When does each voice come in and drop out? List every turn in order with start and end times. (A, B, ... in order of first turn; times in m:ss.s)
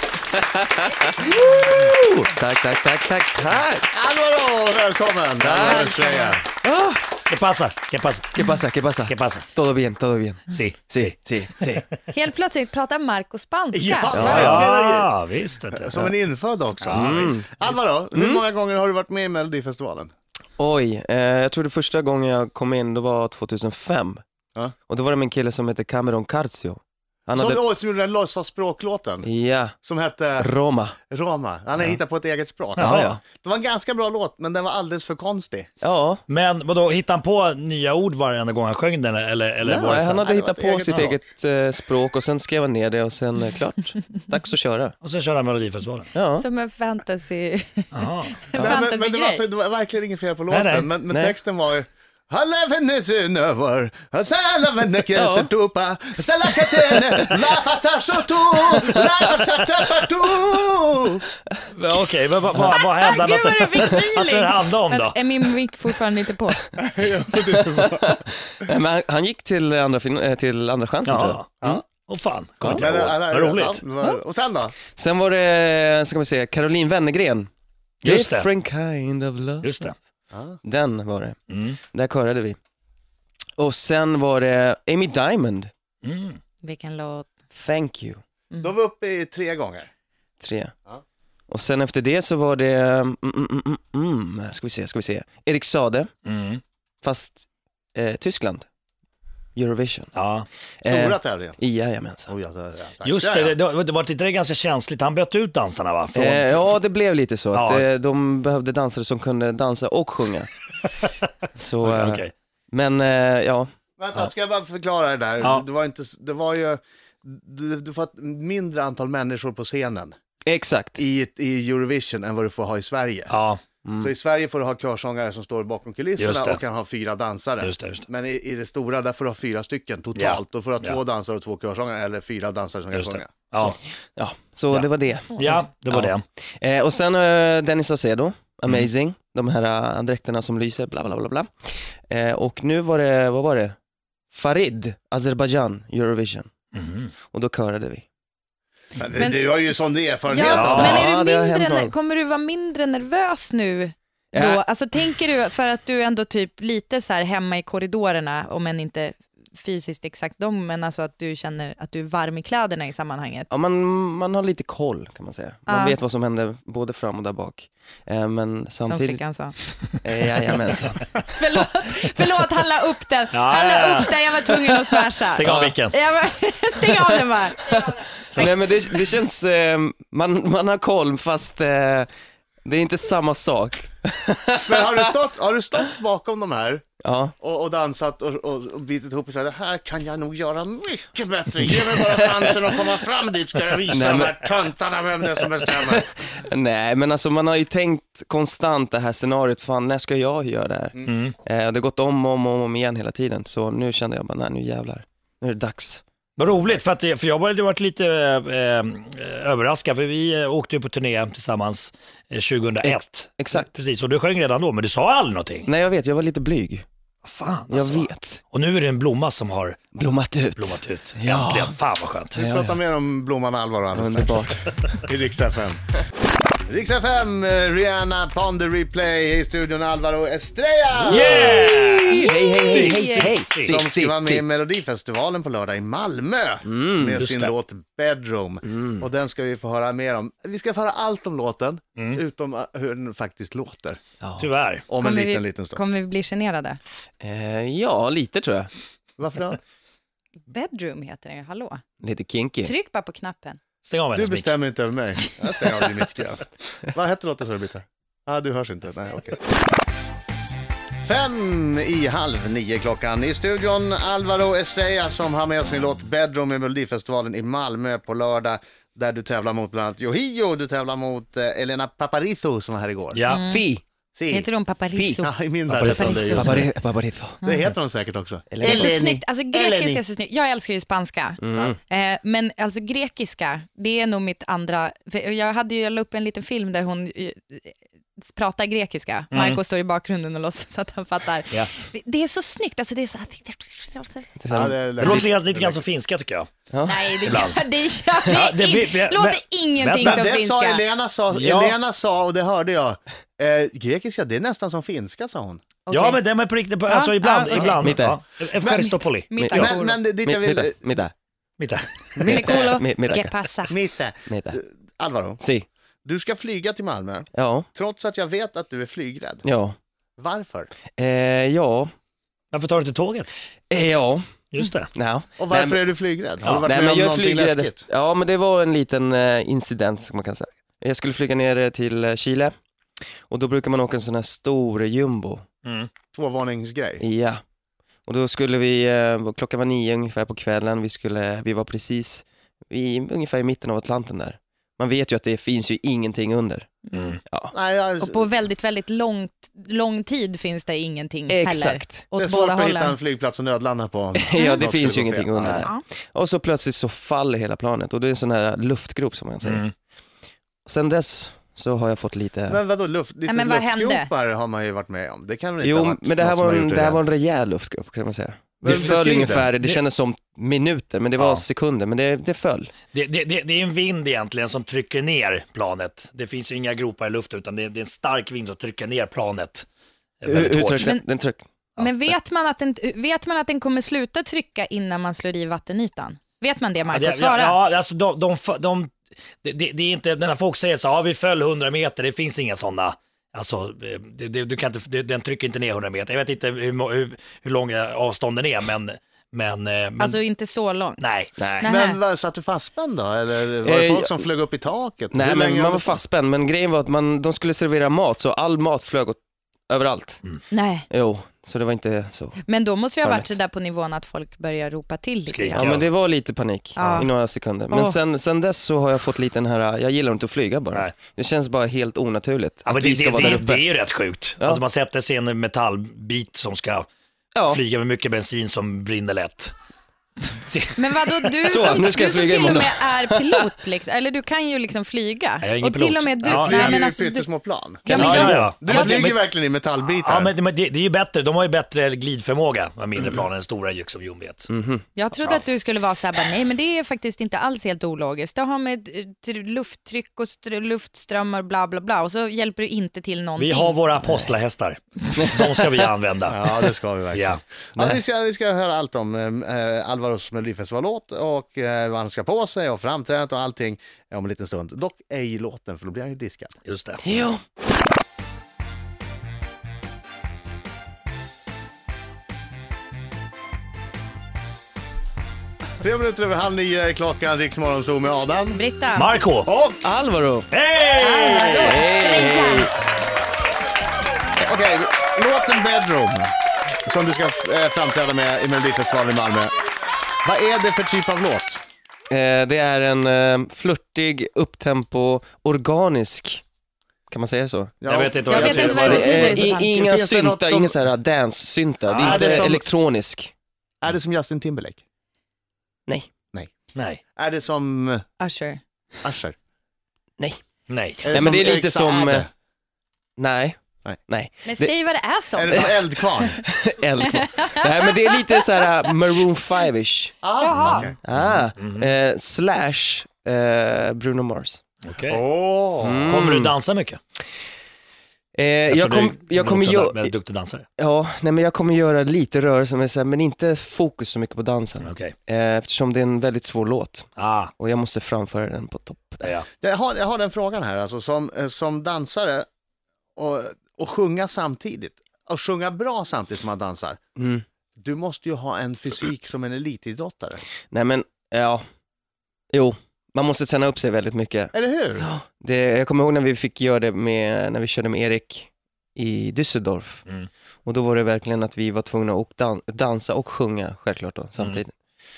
0:00.5-0:03.9 A
0:03.9-0:06.4 B
0:05.4-0:05.9 A
0:05.6-0:06.3 C
0:06.6-0:07.0 A
0:07.3-0:08.3 D
0:08.3-0:11.8 A
0:09.1-0:09.4 D
0:10.5-0:12.0 D
0:12.1-0:14.2 C
0:13.7-0:15.1 B
0:14.1-0:14.7 A
0:14.1-0:16.0 D
0:15.7-0:20.1 B
0:16.8-0:17.4 D
0:16.8-0:18.4 A
0:20.6-0:24.2 A
0:24.9-0:27.6 A
0:27.4-0:29.3 B
0:29.2-0:29.8 A
0:29.8-0:30.5 B
0:30.4-0:31.0 A
0:31.1-0:35.7 B
0:32.8-0:33.1 D
0:32.8-0:33.2 A
0:35.8-0:36.2 A
0:36.3-0:40.3 D
0:39.6-0:44.9 A
0:40.0-0:41.2 B
0:45.0-0:46.1 D
0:46.1-0:46.4 A
0:46.4-0:49.4 C
0:47.9-0:48.4 D
0:48.6-1:01.2 B
0:50.5-0:50.9 D
0:51.1-0:51.4 A
0:55.1-0:55.5 A
0:57.0-0:57.3 A
1:01.7-1:05.2 D
1:02.8-1:06.6 C
1:06.8-1:08.2 B
1:08.2-1:11.8 A
1:11.0-1:11.5 D
1:12.0-1:13.8 D
1:12.6-1:12.9 A
1:12.7-1:14.8 B
1:14.9-1:17.5 A
1:18.0-1:18.5 D
1:18.0-1:19.7 A
1:19.6-1:19.9 D
1:20.3-1:20.6 B
1:20.6-1:21.4 A
1:21.5-1:21.8 D
1:21.9-1:22.6 A
1:23.6-1:25.7 A
1:26.0-1:26.4 D
1:26.6-1:27.3 C
1:27.5-1:28.2 A
1:28.6-1:29.9 B
1:30.4-1:30.7 A
1:31.5-1:36.1 A
1:36.2-1:36.6 D
1:37.0-1:38.6 A
1:39.6-1:40.1 A
1:40.1-1:40.5 D
1:40.8-1:42.3 A
1:40.8-1:41.6 B
1:42.3-1:43.6 B
1:43.0-1:46.8 D
1:46.1-1:50.5 A
1:47.5-1:47.9 D
1:51.6-1:54.3 A
1:51.8-1:52.3 D
1:54.0-2:00.1 B
2:00.4-2:01.0 A
2:01.0-2:03.3 B
2:03.3-2:03.6 D
2:03.8-2:04.1 A
2:04.0-2:13.8 B
2:06.2-2:06.6 D
2:07.6-2:08.0 D
2:10.2-2:11.0 D
2:12.9-2:13.8 D
2:14.2-2:21.5 A
2:14.7-2:16.2 D
2:15.1-2:15.6 C
2:22.1-2:23.7 A
2:24.3-2:26.5 A
2:26.7-2:27.1 D
2:27.3-2:28.0 A
2:29.0-2:31.0 B
2:30.3-2:43.5 C
2:30.4-2:31.1 D
2:30.8-2:31.9 A
2:34.3-2:34.6 A
2:43.5-2:49.2 A
2:45.7-2:46.0 C
2:48.8-2:49.5 C
2:50.0-2:51.2 A
2:51.3-2:57.8 C
2:53.3-2:54.4 D
2:55.3-2:56.0 D
2:55.4-2:55.7 A
2:58.3-3:02.1 A
3:02.6-3:04.9 A
3:04.6-3:06.8 B
3:07.0-3:07.3 A
3:07.4-3:16.0 B
3:13.9-3:14.4 A
3:15.8-3:26.0 A
3:21.0-3:21.3 D
3:26.4-3:35.7 D
3:32.8-3:33.7 A
3:35.6-3:36.8 A
3:37.2-3:40.0 D
3:37.7-3:38.4 A
3:40.0-3:41.8 A
3:40.5-3:42.4 D
3:42.3-3:42.8 A
3:42.4-3:45.8 B
3:43.9-3:45.0 A
3:46.7-3:51.7 B
3:51.0-3:53.8 D
3:51.1-3:54.4 A
3:52.1-3:53.3 C
3:53.6-4:04.0 B
3:56.6-3:57.2 A
3:57.2-3:57.5 D
3:58.7-3:59.0 A
4:02.0-4:02.2 D
4:04.2-4:04.5 A
4:04.4-4:04.8 D
4:04.9-4:05.8 B
4:05.0-4:06.8 C
4:07.2-4:08.7 A
4:09.2-4:09.6 B
4:10.5-4:11.8 C
4:12.0-4:12.7 A
4:12.6-4:13.6 C
4:13.8-4:14.6 D
4:14.1-4:19.4 B
4:21.0-4:33.2 B
4:33.1-4:33.4 D
4:33.3-4:33.7 C
4:33.5-4:33.8 A
4:34.1-4:34.4 B
4:34.3-4:35.3 C
4:34.9-4:35.2 A
4:35.2-4:36.7 B
4:35.7-4:36.6 D
4:35.9-4:37.4 A
4:37.4-4:40.0 B
4:38.5-4:39.0 A
4:38.6-4:54.3 C
4:41.4-4:41.8 A
4:49.3-4:49.6 D
4:54.4-4:55.2 A
4:54.5-4:55.8 B
4:55.0-4:56.5 D
4:56.7-4:57.4 A
4:56.8-5:00.8 C
4:57.2-4:57.6 D
4:58.3-5:00.3 D
5:00.0-5:05.6 B
5:01.3-5:01.8 D
5:05.9-5:06.2 C
5:05.9-5:09.4 D
5:06.9-5:07.8 C
5:07.7-5:08.2 A
5:08.6-5:08.9 B
5:08.8-5:10.0 C
5:09.4-5:11.1 A
5:09.5-5:10.8 B
5:11.6-5:11.8 D
5:12.1-5:12.8 B
5:12.2-5:13.3 A
5:12.2-5:13.8 C
5:13.7-5:15.4 B
5:14.3-5:14.6 A
5:15.4-5:15.7 A
5:16.0-5:19.4 B
5:17.3-5:17.7 A
5:19.4-5:19.7 A
5:20.2-5:20.7 B
5:21.0-5:21.9 A
5:22.5-5:23.3 D
5:23.7-5:24.2 A
5:24.5-5:24.9 D
5:24.9-5:32.5 A
5:25.4-5:27.8 B
5:33.3-5:35.4 A
5:35.6-5:35.9 D
5:36.1-5:37.0 B
5:37.0-5:37.4 A
5:38.1-5:47.5 A
5:46.9-5:47.2 C
5:46.9-5:47.2 D
5:47.5-5:48.3 B
5:48.0-5:53.0 C
5:51.3-5:52.0 A
5:52.2-5:55.6 B
5:54.3-5:59.6 A
5:54.3-5:54.6 C
5:55.4-5:55.6 D
5:59.4-5:59.7 D
6:00.6-6:02.6 A
6:02.5-6:07.0 B
6:03.3-6:04.1 C
6:05.6-6:12.7 A
6:08.6-6:09.5 B
6:08.7-6:09.8 D
6:11.2-6:11.4 D
6:12.9-6:19.6 D
6:20.2-6:20.9 D
6:20.2-6:21.4 A
6:20.8-6:21.1 C
6:21.8-6:27.6 C
6:26.9-6:40.2 D
6:40.0-6:41.0 C
6:41.0-6:41.4 D
6:41.4-6:41.7 A
6:41.6-6:42.0 C
6:41.6-6:46.0 B
6:43.6-6:44.3 A
6:45.1-6:50.2 A
6:50.5-6:50.8 C
6:50.9-6:52.4 A
6:52.4-6:55.7 C
6:53.0-6:53.3 A
6:55.3-6:55.8 D
6:55.5-7:03.6 A
6:56.8-6:57.1 C
6:56.8-6:57.0 D
6:57.7-6:58.0 C
7:02.6-7:06.9 D
7:07.3-7:07.6 A
7:07.5-7:09.5 D
7:10.5-7:11.6 D
7:10.8-7:17.3 C
7:11.4-7:13.4 A
7:15.4-7:16.8 D
7:16.2-7:20.3 B
7:17.8-7:19.1 C
7:17.9-7:19.2 D
7:19.8-7:24.5 D
7:24.5-7:24.8 A
7:24.9-7:33.8 C
7:25.2-7:25.4 D
7:33.4-7:36.6 D
7:36.3-7:46.5 B
7:37.1-7:37.4 D
7:46.6-7:47.0 D
7:47.0-7:47.4 A
7:55.8-7:58.6 B
7:58.5-7:59.1 C
7:58.9-7:59.5 D
7:59.4-7:59.8 B
7:59.8-8:00.5 A
8:00.5-8:01.7 D
8:01.0-8:02.7 C
8:01.5-8:02.7 A
8:04.4-8:06.3 B
8:06.8-8:09.5 B
8:10.2-8:11.6 B
8:12.1-8:16.4 A
8:17.1-8:17.7 A
8:17.8-8:20.7 B
8:17.8-8:19.3 D
8:18.3-8:19.7 C
8:18.5-8:23.3 A
8:21.9-8:22.5 D
8:22.0-8:22.6 B
8:23.8-8:24.8 B
8:27.2-8:28.0 B
8:28.2-8:28.6 C
8:29.0-8:29.3 B
8:30.7-8:31.0 D
8:31.0-8:32.3 B
8:31.1-8:32.2 A
8:33.2-8:34.7 A
8:34.4-8:36.3 C
8:35.3-8:36.4 B
8:36.5-8:44.6 A
8:37.4-8:38.5 C
8:40.2-8:41.0 B
8:40.4-8:40.8 C
8:40.5-8:41.9 D
8:44.8-8:45.2 D
8:45.1-8:46.1 B
8:45.8-8:46.5 A
8:46.0-8:47.0 D
8:48.3-8:50.1 A
8:48.7-8:50.6 D
8:50.8-8:59.3 A
8:54.8-8:55.1 D
8:57.2-8:57.5 D
8:59.2-8:59.5 D
8:59.6-9:02.4 B
9:03.2-9:07.0 B
9:07.2-9:07.4 A
9:07.8-9:10.4 B
9:10.7-9:11.6 A
9:12.5-9:20.0 A
9:14.5-9:15.1 B
9:20.6-9:24.7 A